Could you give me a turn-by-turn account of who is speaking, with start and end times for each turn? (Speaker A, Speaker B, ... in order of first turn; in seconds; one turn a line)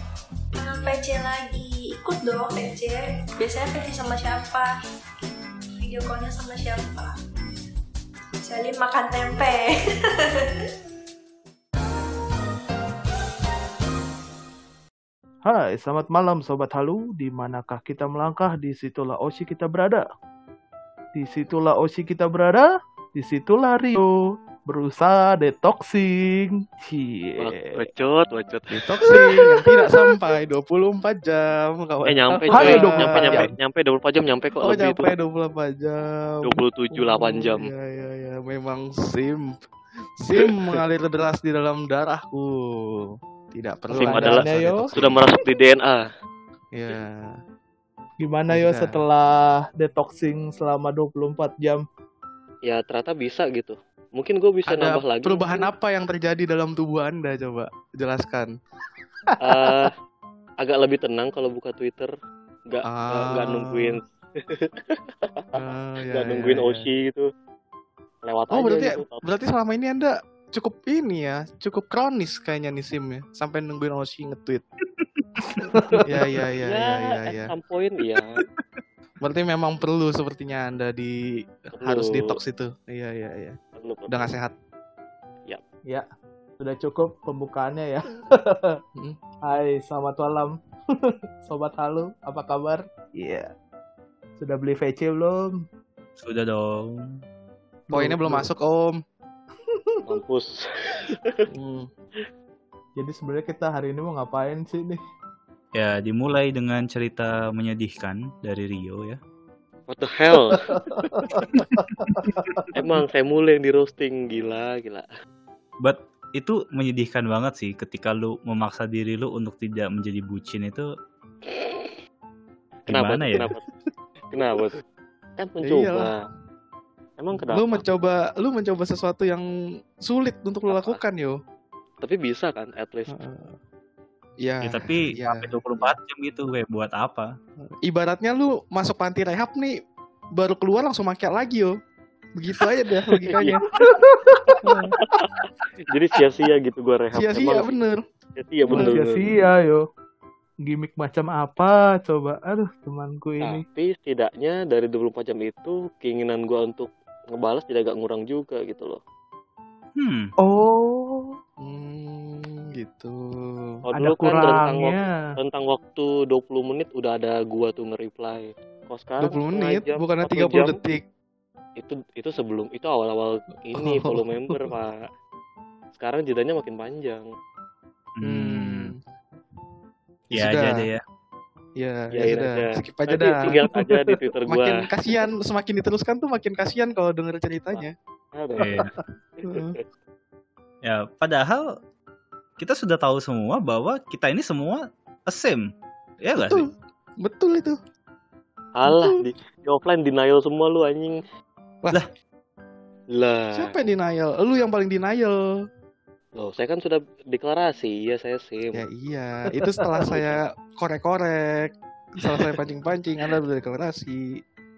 Speaker A: 0.5-4.7
Speaker A: 5.8-7.1
Speaker A: 8.4-10.6
Speaker B: 15.4-20.0
Speaker B: 21.1-24.1
Speaker B: 24.7-27.9
Speaker C: 27.4-29.1
Speaker D: 28.7-33.5
Speaker C: 32.0-35.1
Speaker B: 32.5-33.5
Speaker D: 34.6-39.6
Speaker C: 36.4-37.7
Speaker D: 40.2-45.2
Speaker C: 40.4-40.8
Speaker C: 43.9-44.4
Speaker B: 44.1-44.9
Speaker C: 44.9-46.0
Speaker D: 46.7-47.4
Speaker B: 48.2-51.8
Speaker D: 48.5-49.0
Speaker C: 52.7-55.7
Speaker D: 54.6-58.5
Speaker B: 59.3-59.9
Speaker C: 59.4-59.9
Speaker C: 60.6-62.1
Speaker C: 62.7-67.3
Speaker D: 62.9-64.0
Speaker D: 65.5-66.8
Speaker C: 68.2-69.2
Speaker D: 68.5-74.6
Speaker E: 75.0-75.6
Speaker B: 75.6-76.0
Speaker D: 76.0-77.5
Speaker C: 76.6-78.4
Speaker D: 79.2-81.2
Speaker D: 81.8-83.6
Speaker C: 81.8-82.4
Speaker C: 83.8-84.3
Speaker D: 84.1-84.5
Speaker B: 86.6-88.8
Speaker B: 89.4-90.5
Speaker B: 91.4-93.5
Speaker B: 94.4-95.5
Speaker E: 96.2-97.1
Speaker B: 97.9-98.5
Speaker D: 97.9-99.0
Speaker B: 99.7-100.0
Speaker C: 100.0-101.4
Speaker D: 101.5-101.9
Speaker B: 103.0-105.0
Speaker E: 105.7-109.2
Speaker C: 109.9-110.8
Speaker B: 110.5-112.7
Speaker E: 111.5-112.6
Speaker C: 112.7-115.0
Speaker E: 115.8-120.9
Speaker C: 121.4-122.0
Speaker C: 122.9-123.6
Speaker E: 122.9-123.5
Speaker C: 124.3-124.8
Speaker C: 125.4-126.2
Speaker D: 125.6-126.1
Speaker C: 127.2-127.8
Speaker D: 127.3-129.4
Speaker D: 130.0-131.3
Speaker C: 130.7-131.0
Speaker C: 132.0-133.2
Speaker D: 133.1-133.6
Speaker D: 134.4-135.9
Speaker E: 134.6-137.3
Speaker D: 137.8-139.7
Speaker D: 140.4-141.7
Speaker D: 142.4-143.6
Speaker C: 143.3-143.6
Speaker B: 143.8-145.2
Speaker C: 144.5-147.8
Speaker D: 144.6-144.9
Speaker D: 147.1-148.0
Speaker C: 148.4-149.2
Speaker D: 148.7-149.0
Speaker B: 148.7-149.8
Speaker B: 150.6-153.6
Speaker C: 153.4-159.0
Speaker E: 160.0-160.3
Speaker B: 160.4-161.3
Speaker D: 161.6-163.7
Speaker C: 163.8-170.7
Speaker B: 163.9-165.1
Speaker D: 169.2-171.0
Speaker C: 171.8-175.0
Speaker D: 173.8-174.7
Speaker C: 175.9-177.2
Speaker E: 178.2-178.9
Speaker D: 178.2-179.0
Speaker D: 180.3-180.8
Speaker E: 180.3-181.0
Speaker D: 181.8-183.6
Speaker C: 182.1-184.7
Speaker B: 183.7-184.2
Speaker D: 184.5-187.9
Speaker C: 187.7-189.8
Speaker E: 188.6-188.9
Speaker D: 189.4-189.7
Speaker E: 190.8-191.6
Speaker E: 192.6-195.6
Speaker E: 196.2-196.7
Speaker D: 196.3-196.7
Speaker D: 197.2-197.8
Speaker C: 198.8-201.2
Speaker D: 198.9-199.2
Speaker C: 203.1-203.7
Speaker D: 203.5-205.4
Speaker C: 206.4-208.8
Speaker D: 208.7-214.2
Speaker C: 210.1-210.4